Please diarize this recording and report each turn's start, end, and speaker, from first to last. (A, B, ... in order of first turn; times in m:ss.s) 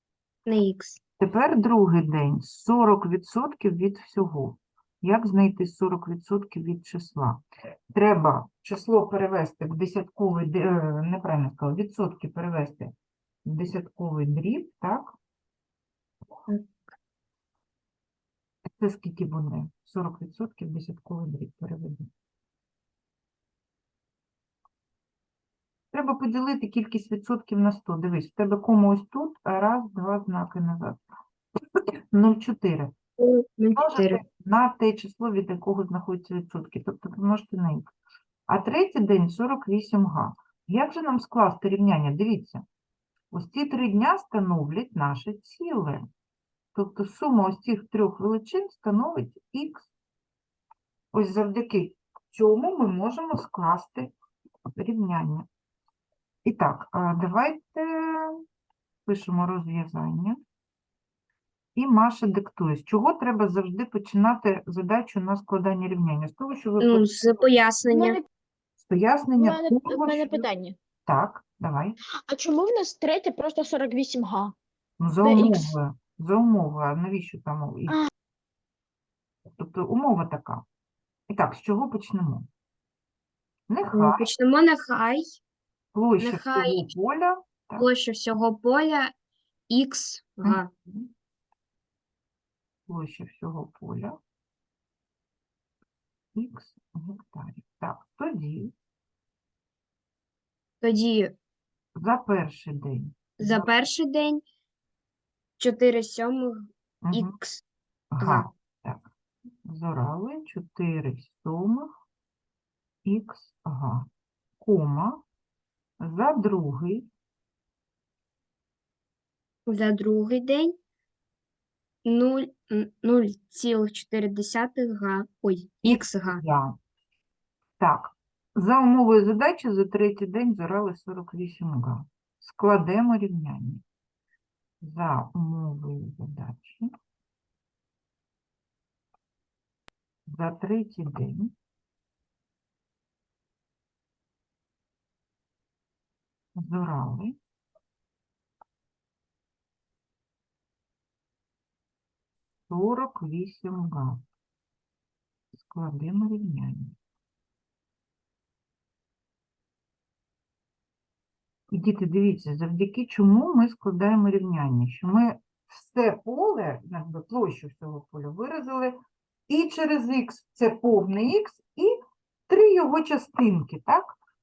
0:00.5-0:01.0 A
0:01.2-0:07.4 B
0:07.9-0:12.9 B
0:13.4-0:15.1 B
0:18.8-0:22.1 B
0:25.9-0:31.0 B
0:31.7-0:33.0 B
0:33.2-0:34.2 A
0:33.8-0:37.9 B
0:38.5-0:42.6 B
0:43.3-0:46.1 B
0:46.8-0:49.9 B
0:51.1-0:54.1 B
0:54.8-0:55.5 B
0:56.4-0:58.4 B
0:59.1-1:00.4 B
1:01.8-1:07.1 B
1:06.8-1:08.2 A
1:07.9-1:08.2 C
1:08.8-1:10.5 B
1:09.4-1:10.8 C
1:11.1-1:12.0 B
1:12.3-1:14.5 C
1:15.0-1:18.0 B
1:19.6-1:20.6 B
1:21.3-1:22.5 B
1:23.7-1:24.3 B
1:23.9-1:25.4 A
1:25.9-1:27.9 B
1:26.2-1:26.9 A
1:27.8-1:29.1 A
1:29.7-1:30.7 A
1:30.4-1:31.1 B
1:32.9-1:34.2 B
1:36.4-1:38.7 B
1:40.8-1:41.3 A
1:42.0-1:43.7 B
1:43.4-1:44.4 A
1:45.6-1:47.6 A
1:47.0-1:47.4 B
1:48.1-1:49.0 B
1:48.2-1:48.5 A
1:49.6-1:51.9 B
1:53.0-1:54.1 B
1:54.6-1:55.2 B
1:56.0-1:57.1 B
1:59.7-2:00.8 A
2:02.0-2:06.4 A
2:06.3-2:06.8 B
2:07.8-2:13.8 B
2:14.8-2:16.9 B
2:20.3-2:21.5 B
2:26.6-2:27.4 B
2:32.7-2:34.2 B
2:35.6-2:37.0 B
2:41.7-2:49.0 B
2:49.5-2:52.0 B
2:52.5-2:54.2 B